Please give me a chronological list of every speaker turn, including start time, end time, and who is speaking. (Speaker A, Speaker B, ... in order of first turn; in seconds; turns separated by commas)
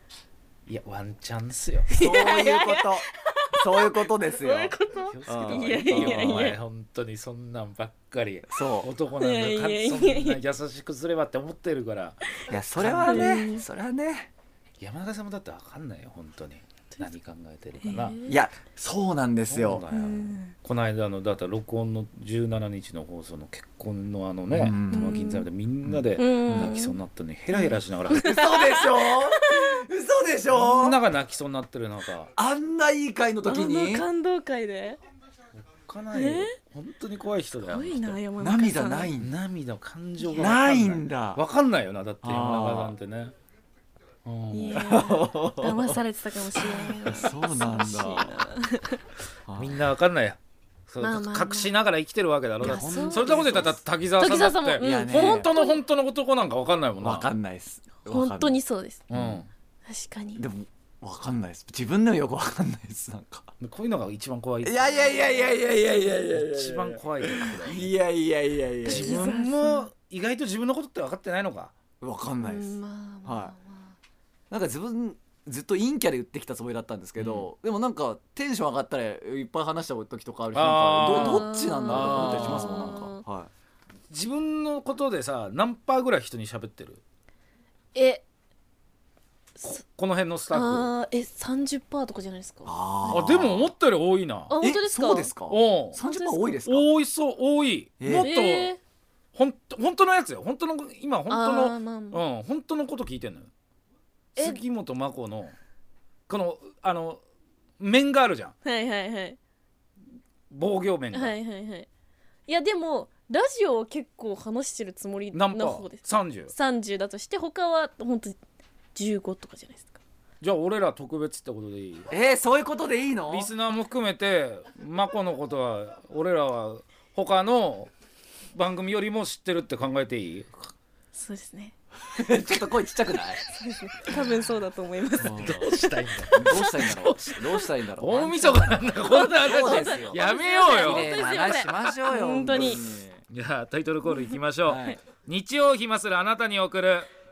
Speaker A: 0.7-1.9, Speaker B: 1.9-6.6, Speaker C: 2.0-4.8, Speaker A: 5.1-13.3, Speaker C: 5.3-6.5, Speaker C: 8.5-8.9, Speaker B: 9.2-10.4, Speaker C: 12.5-14.3, Speaker B: 13.1-13.6, Speaker A: 14.8-18.2, Speaker B: 17.8-18.4, Speaker C: 18.3-19.9, Speaker A: 19.5-28.4, Speaker B: 19.9-20.5, Speaker C: 24.5-25.2, Speaker B: 24.9-25.5, Speaker C: 25.9-26.8, Speaker B: 26.2-27.0, Speaker B: 27.5-29.8, Speaker C: 28.1-31.0, Speaker A: 30.5-32.3, Speaker C: 32.3-34.1, Speaker B: 33.5-35.0, Speaker A: 35.7-38.2, Speaker B: 36.1-36.5, Speaker B: 37.6-39.1, Speaker C: 38.4-39.3, Speaker A: 39.2-43.3, Speaker C: 40.3-41.5, Speaker C: 42.2-43.0, Speaker A: 44.2-44.9, Speaker B: 44.5-49.0, Speaker C: 44.8-46.0, Speaker C: 46.6-48.5, Speaker C: 49.5-49.8, Speaker A: 49.6-57.3, Speaker B: 51.0-51.7, Speaker C: 52.6-53.8, Speaker B: 52.6-55.8, Speaker C: 54.8-55.5, Speaker C: 57.0-59.5, Speaker B: 58.0-59.1, Speaker A: 59.1-59.5, Speaker B: 59.9-60.4, Speaker C: 60.4-63.5, Speaker A: 63.6-65.4, Speaker C: 64.6-69.3, Speaker B: 65.2-65.5, Speaker A: 66.3-67.9, Speaker B: 68.8-69.9, Speaker A: 68.9-71.7, Speaker C: 72.0-73.5, Speaker B: 72.4-74.0, Speaker C: 74.5-83.5, Speaker A: 77.2-77.5, Speaker A: 80.5-83.0, Speaker B: 81.1-83.2, Speaker A: 84.1-87.0, Speaker B: 87.9-88.2, Speaker A: 89.6-90.9, Speaker B: 90.5-93.3, Speaker C: 92.7-93.7, Speaker A: 93.1-94.5, Speaker B: 94.5-95.3, Speaker C: 94.6-96.9, Speaker A: 95.5-96.0, Speaker B: 96.0-96.6, Speaker A: 96.7-98.8, Speaker C: 98.0-98.3, Speaker B: 98.1-98.8, Speaker A: 99.3-103.5, Speaker B: 101.3-102.2, Speaker A: 104.3-105.6, Speaker B: 104.4-104.6, Speaker A: 106.3-107.2, Speaker A: 107.8-108.5, Speaker B: 108.7-109.4, Speaker A: 110.5-111.4, Speaker B: 111.1-111.9, Speaker B: 112.5-118.4, Speaker A: 115.3-116.5, Speaker B: 119.0-120.0, Speaker A: 120.4-122.1, Speaker C: 122.1-123.5, Speaker A: 123.3-127.9, Speaker A: 128.6-130.7, Speaker B: 131.1-131.7, Speaker C: 132.1-133.4, Speaker B: 133.5-137.7, Speaker C: 135.2-135.6, Speaker A: 135.3-137.5, Speaker C: 136.3-143.2, Speaker A: 138.0-141.2, Speaker B: 138.9-142.9, Speaker A: 143.3-147.1, Speaker B: 144.1-144.3, Speaker C: 144.7-145.0